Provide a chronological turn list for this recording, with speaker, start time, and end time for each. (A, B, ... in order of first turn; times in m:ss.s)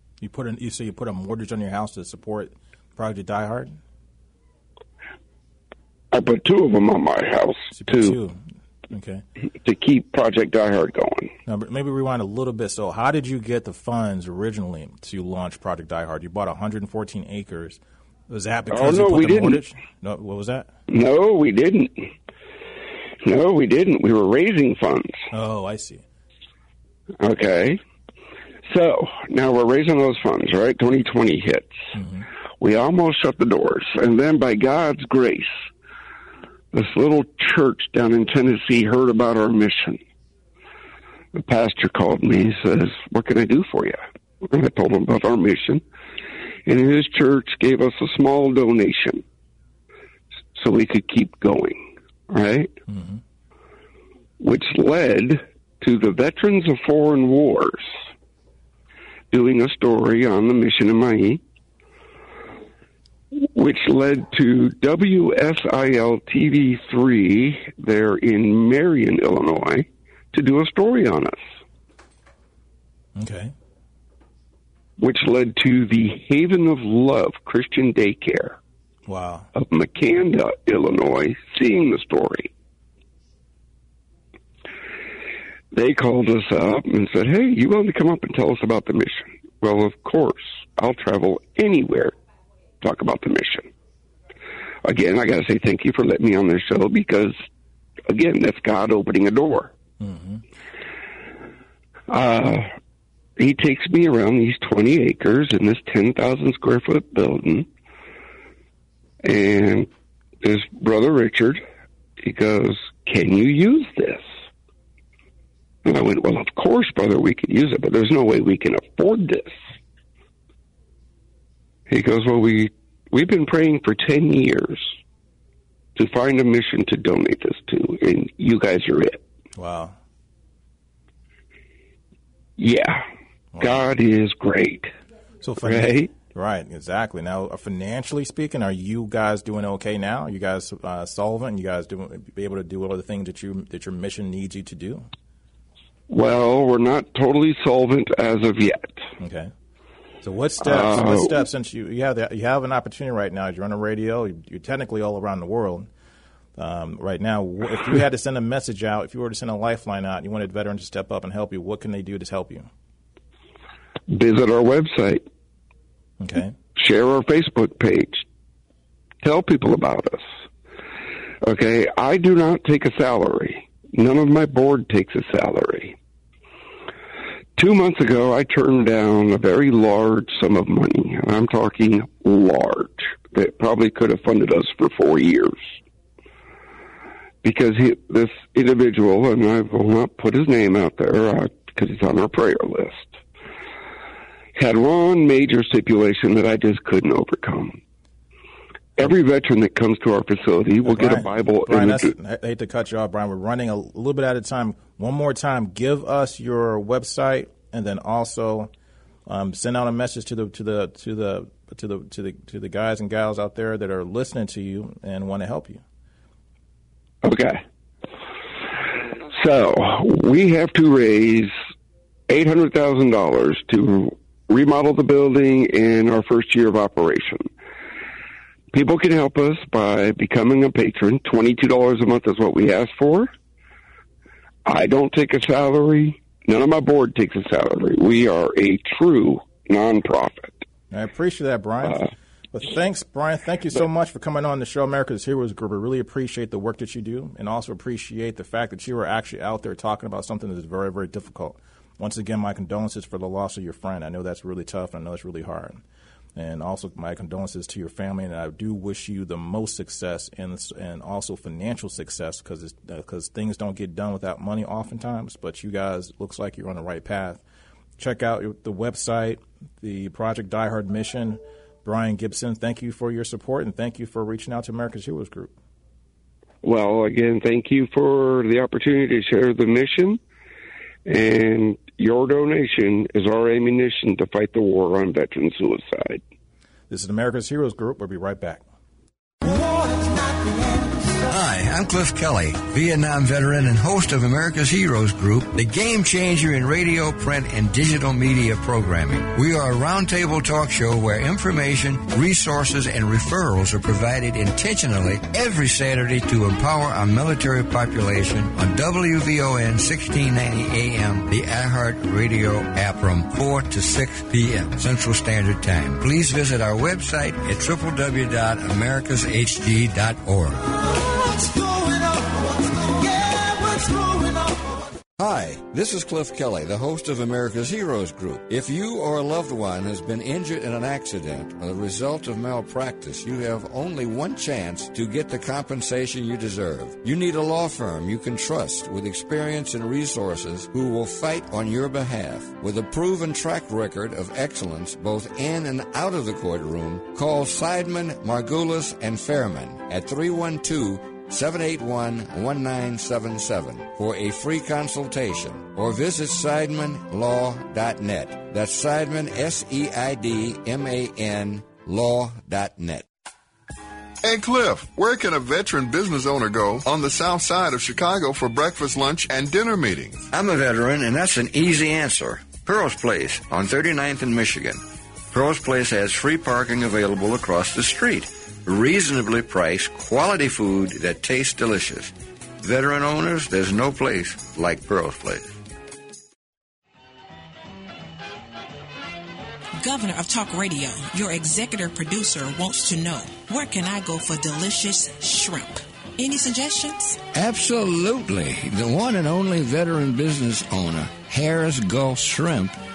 0:00.2-0:03.8 A
0:06.1-0:08.2 B
0:07.7-0:09.2 A
0:09.6-0:11.3 B
0:11.5-0:20.7 A
0:18.7-0:19.6 B
0:20.9-0:22.1 B
0:23.2-0:25.3 B
0:25.3-0:26.0 A
0:27.2-0:27.8 B
0:28.7-0:31.8 B
0:32.0-0:32.3 A
0:32.6-0:35.5 B
0:36.7-0:40.0 B
0:41.3-0:45.8 B
0:46.7-0:49.2 B
0:50.6-0:52.7 B
0:52.9-0:53.2 A
0:54.4-0:57.9 B
0:59.3-1:01.4 B
1:03.3-1:11.4 B
1:13.2-1:13.5 A
1:15.0-1:18.6 B
1:19.1-1:19.5 A
1:19.6-1:22.5 B
1:25.7-1:32.1 B
1:32.8-1:33.7 B
1:34.8-1:37.4 B
1:38.1-1:39.7 B
1:40.0-1:40.4 A
1:42.1-1:42.7 B
1:43.4-1:47.7 B
1:49.2-1:49.9 B
1:50.4-1:51.6 B
1:52.2-1:54.2 B
1:55.8-1:59.6 B
2:01.9-2:04.9 B
2:06.0-2:09.2 B
2:09.6-2:10.0 A
2:12.6-2:13.0 B
2:13.6-2:13.8 A
2:13.6-2:14.9 B
2:15.4-2:25.1 A
2:15.6-2:16.1 B
2:26.1-2:29.0 B
2:29.2-2:29.5 A
2:30.2-2:35.9 A
2:30.6-2:31.4 B
2:36.6-2:42.7 A
2:44.1-2:45.2 B
2:46.2-2:46.6 A
2:46.8-2:48.2 B
2:49.2-2:50.2 B
2:51.4-2:56.0 B
2:57.6-3:05.6 B
3:07.4-3:13.2 B
3:14.6-3:17.8 B
3:19.0-3:22.1 B
3:20.9-3:28.7 A
3:29.3-3:35.8 A
3:37.2-3:37.6 B
3:39.3-3:41.5 B
3:42.3-3:47.5 B
3:48.7-3:53.3 B
3:54.7-4:00.6 B
4:00.9-4:15.8 A
4:16.4-4:27.4 A
4:28.0-4:35.5 A
4:36.6-4:40.2 B
4:41.1-4:46.2 B
4:46.9-4:48.6 A
4:51.2-5:20.8 C
5:23.0-5:24.5 C
5:25.2-6:03.1 C
6:04.2-6:10.3 D
6:10.3-6:25.5 C
6:29.8-6:37.2 E
6:37.3-6:42.8 C